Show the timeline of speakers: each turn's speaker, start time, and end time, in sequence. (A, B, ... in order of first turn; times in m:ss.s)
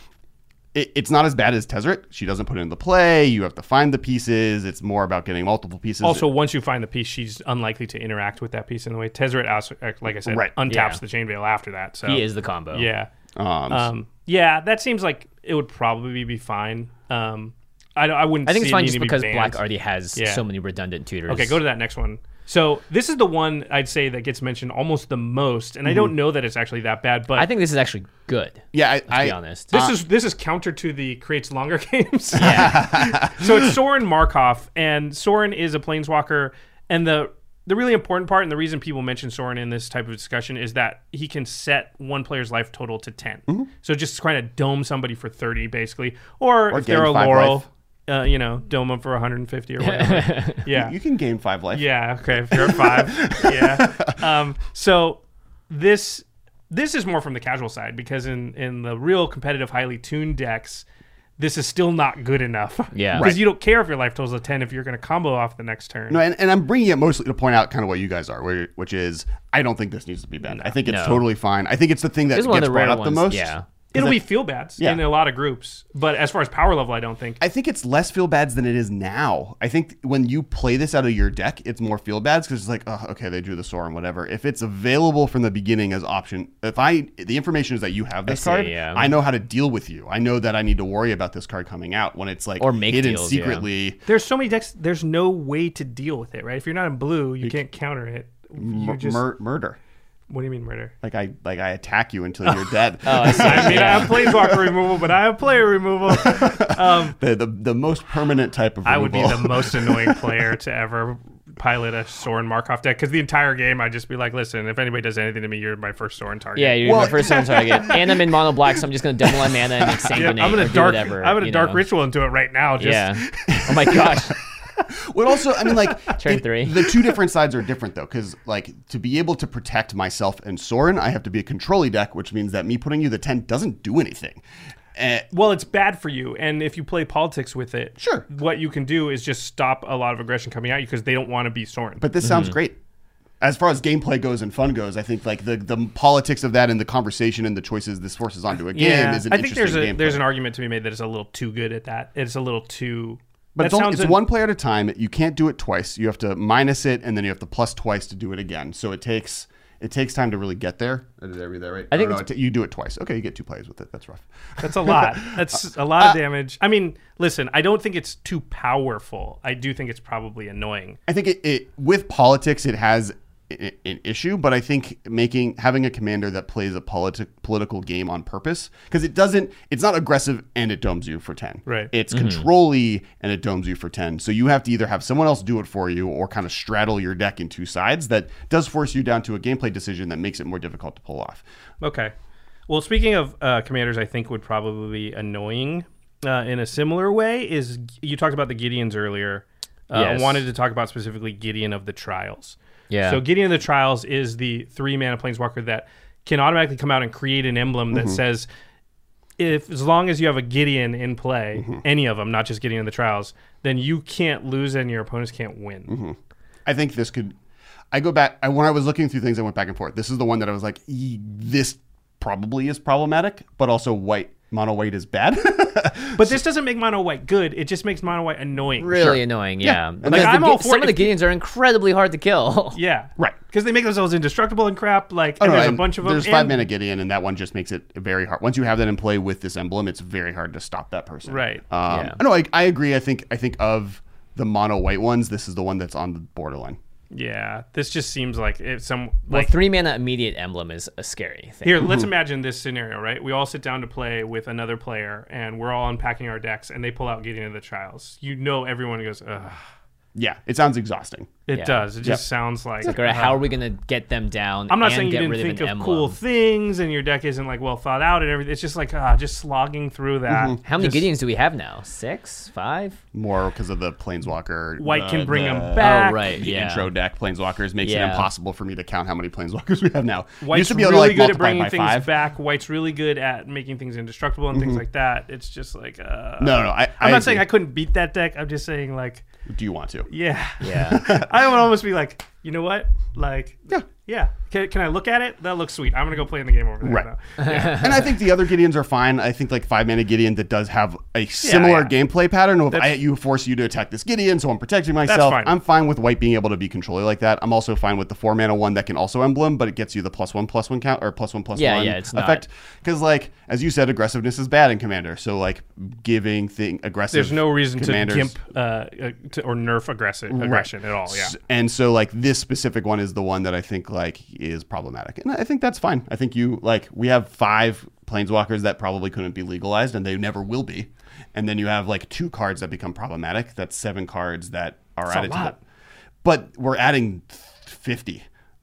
0:00.7-0:06.3 A
0:06.0-0:13.1 B
0:10.2-0:10.5 A
0:10.7-0:11.0 C
0:12.0-0:12.9 C
0:13.4-0:13.9 A
0:13.7-0:19.6 B
0:18.4-0:21.6 C
0:20.1-0:20.4 B
0:21.3-0:27.5 B
0:27.4-0:29.8 C
0:28.7-0:30.0 A
0:29.7-0:50.9 B
0:32.3-0:33.7 A
0:32.3-0:32.8 C
0:46.7-0:47.6 A
0:49.8-0:50.6 C
0:50.7-0:51.9 A
0:51.7-1:00.8 B
0:52.5-0:54.1 A
1:01.4-1:06.2 B
1:02.9-1:03.4 C
1:03.2-1:03.4 A
1:06.1-1:14.2 A
1:10.5-1:10.7 B
1:10.8-1:11.3 C
1:12.3-1:13.6 C
1:13.9-1:17.4 B
1:14.8-1:15.1 A
1:17.4-1:34.0 A
1:28.2-1:29.1 C
1:32.6-1:33.6 C
1:34.1-1:39.2 B
1:38.6-1:39.8 A
1:40.3-1:40.9 B
1:41.0-1:44.8 A
1:42.4-1:47.2 B
1:43.0-1:44.2 C
1:46.1-1:50.5 A
1:48.8-1:58.0 B
1:56.6-2:01.8 C
1:56.8-1:58.0 A
2:00.1-2:04.1 B
2:02.8-2:04.3 C
2:03.5-2:04.0 A
2:05.0-2:14.4 A
2:06.1-2:06.8 C
2:14.9-2:15.3 A
2:15.3-2:22.1 B
2:18.0-2:18.2 A
2:22.0-2:22.8 A
2:22.2-2:22.5 C
2:23.4-2:30.2 A
2:28.7-2:34.2 B
2:33.6-2:46.2 A
2:41.9-2:42.2 C
2:44.6-2:51.0 B
2:51.1-3:11.4 A
3:01.6-3:01.9 B
3:02.1-3:02.4 C
3:11.8-3:12.1 B
3:12.7-3:28.5 B
3:19.9-3:20.4 C
3:22.9-3:23.2 C
3:27.9-3:28.2 A
3:29.4-3:36.0 B
3:31.6-3:31.8 A
3:35.9-3:37.4 A
3:37.9-3:46.4 A
3:46.1-3:49.2 B
3:48.8-3:52.8 C
3:48.9-3:50.4 A
3:50.0-3:51.2 B
3:52.7-3:56.6 B
3:55.4-4:06.8 A
4:01.3-4:01.6 B
4:01.9-4:02.2 C
4:07.1-4:09.5 B
4:09.3-4:11.8 C
4:11.6-4:19.6 B
4:20.1-4:21.4 A
4:21.5-4:23.5 B
4:21.5-4:21.8 C
4:22.8-4:26.2 C
4:24.7-4:31.1 B
4:30.3-4:30.6 A
4:30.6-4:33.0 C
4:33.1-4:42.1 A
4:34.8-4:36.3 B
4:35.8-4:36.9 C
4:37.8-4:38.3 C
4:40.4-4:49.2 B
4:44.5-4:44.8 A
4:46.4-4:47.5 A
4:49.5-4:50.1 A
4:50.1-4:58.0 B
4:50.6-4:51.0 C
4:50.8-4:51.3 A
4:56.8-5:18.3 A
4:57.4-4:57.8 C
5:01.4-5:02.0 B
5:02.7-5:03.0 B
5:05.1-5:05.5 B
5:11.5-5:12.4 C
5:17.1-5:21.3 B
5:20.3-5:35.6 A
5:35.1-5:35.5 B
5:36.2-5:38.2 A